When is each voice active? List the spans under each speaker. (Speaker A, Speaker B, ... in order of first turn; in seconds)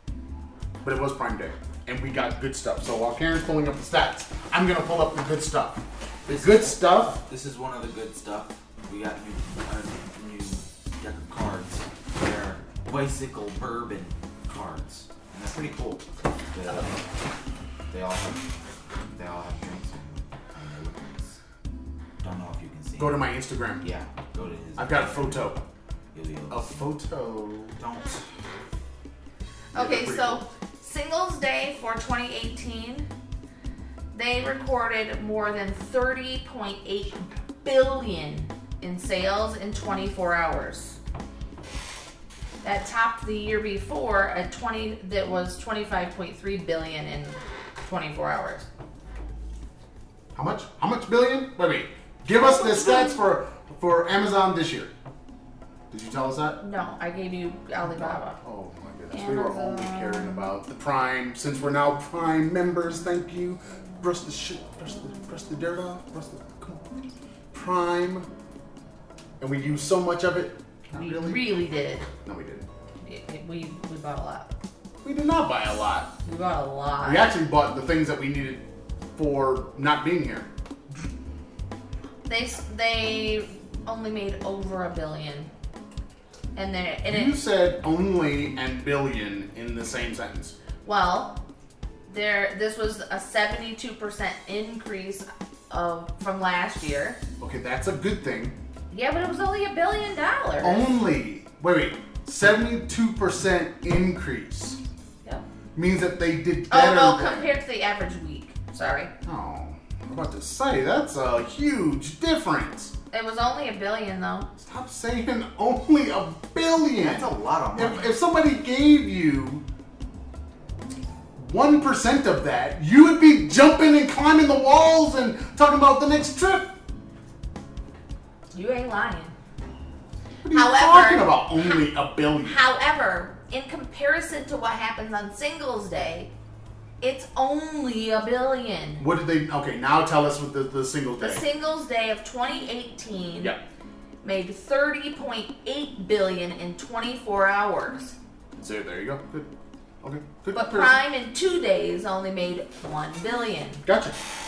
Speaker A: 0.8-7.2, 23.0-23.8, 24.8-25.6, 26.5-27.8, 29.8-30.4, 50.4-54.9, 55.9-56.6, 57.8-66.8, 67.5-68.3, 69.4-71.5, 72.2-72.7, 75.0-76.1, 77.0-78.7, 79.2-80.5, 87.1-90.6, 97.4-98.6, 100.6-104.8, 105.8-107.5, 109.2-113.0, 114.6-119.6, 121.4-126.7, 130.4-132.6, 139.0-141.4, 148.6-149.5, 150.0-151.0, 153.8-154.2
Speaker B: 6.2-17.1, 17.9-18.6, 19.1-21.4, 22.2-23.3, 23.8-25.5, 26.1-26.8, 27.8-28.2, 117.0-118.2
Speaker C: 29.7-33.1, 34.1-41.0, 42.6-48.7, 52.4-53.2, 56.6-58.4, 59.1-60.5, 70.9-72.1, 73.0-74.5, 76.2-77.3, 82.3-85.5, 86.5-87.3, 90.8-91.4, 92.1-97.2, 98.9-100.9, 106.7-109.1, 113.1-114.5, 128.5-129.4, 130.5-131.8, 132.4-136.3, 137.0-139.0, 141.2-143.5, 144.2-148.2, 150.5-153.8